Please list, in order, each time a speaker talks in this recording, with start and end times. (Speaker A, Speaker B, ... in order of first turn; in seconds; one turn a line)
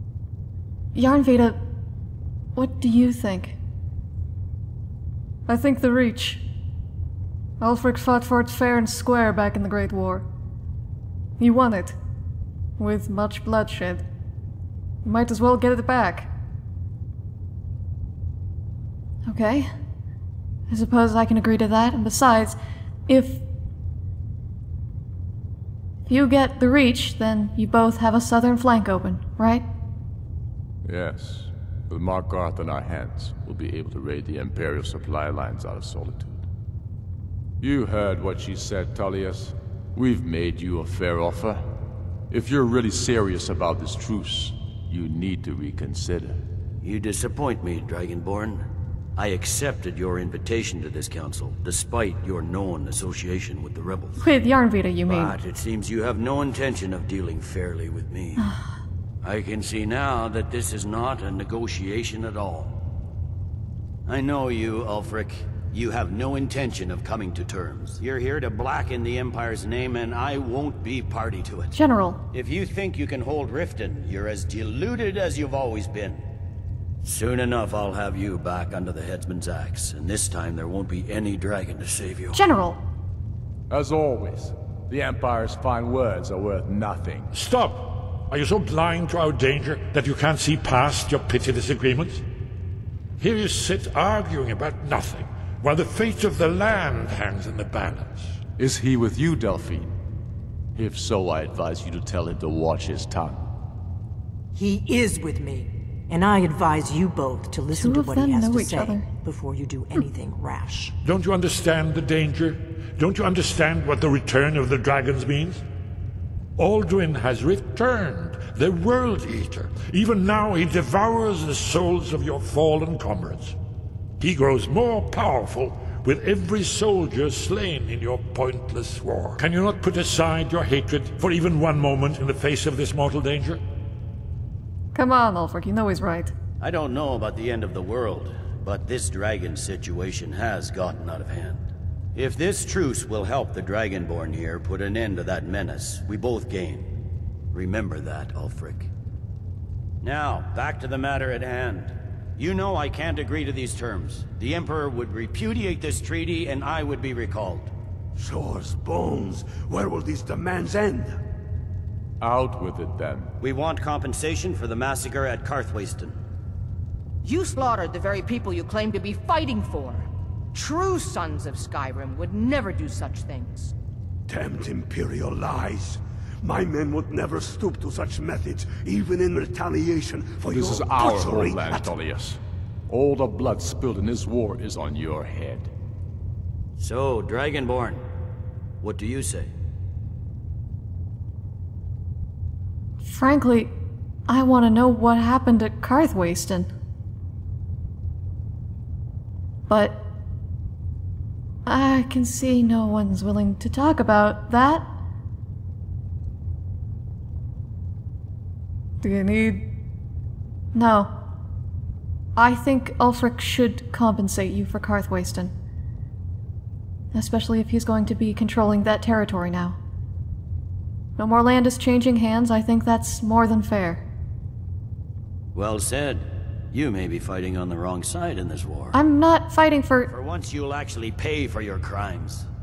Speaker A: 0.9-1.6
Speaker A: 2.5-3.6
Speaker B: 5.5-6.4
Speaker B: 7.6-10.2
Speaker A: 11.4-11.9
Speaker B: 11.5-11.9
Speaker A: 12.8-14.0
Speaker B: 12.8-13.9
Speaker B: 15.0-16.3
Speaker A: 19.3-19.7
Speaker A: 20.7-23.4
Speaker A: 26.1-29.7
Speaker C: 30.8-36.5
Speaker C: 37.6-41.7
Speaker C: 42.3-46.4
Speaker D: 46.8-48.6
Speaker D: 49.1-54.2
Speaker A: 54.2-55.4
Speaker D: 55.1-58.5
Speaker D: 59.2-62.8
Speaker D: 64.0-71.8
Speaker A: 71.7-72.2
Speaker D: 72.3-76.2
Speaker D: 77.0-82.4
Speaker A: 82.3-82.8
Speaker C: 83.7-87.3
Speaker E: 87.3-92.2
Speaker E: 93.2-98.4
Speaker C: 98.6-100.0
Speaker C: 100.7-103.4
Speaker F: 104.5-110.9
Speaker A: 107.7-109.1
Speaker E: 111.0-115.6
Speaker E: 116.6-123.6
Speaker E: 124.2-133.6
Speaker B: 134.9-136.3
Speaker D: 136.6-146.9
Speaker D: 147.5-148.9
Speaker D: 150.0-157.7
Speaker G: 158.2-161.2
Speaker C: 162.2-163.3
Speaker D: 163.4-166.2
Speaker H: 167.2-173.7
Speaker G: 174.3-182.0
Speaker C: 180.5-185.7
Speaker D: 186.8-188.0
Speaker D: 188.8-189.5
Speaker A: 193.0-193.7
Speaker A: 194.3-196.7
Speaker A: 199.7-200.1
Speaker A: 201.6-204.9
Speaker A: 209.0-209.7
Speaker A: 210.7-211.2
Speaker A: 212.3-215.5
Speaker A: 217.1-219.8
Speaker A: 221.2-224.0
Speaker D: 225.5-228.9
Speaker A: 228.9-230.1
Speaker D: 230.1-232.5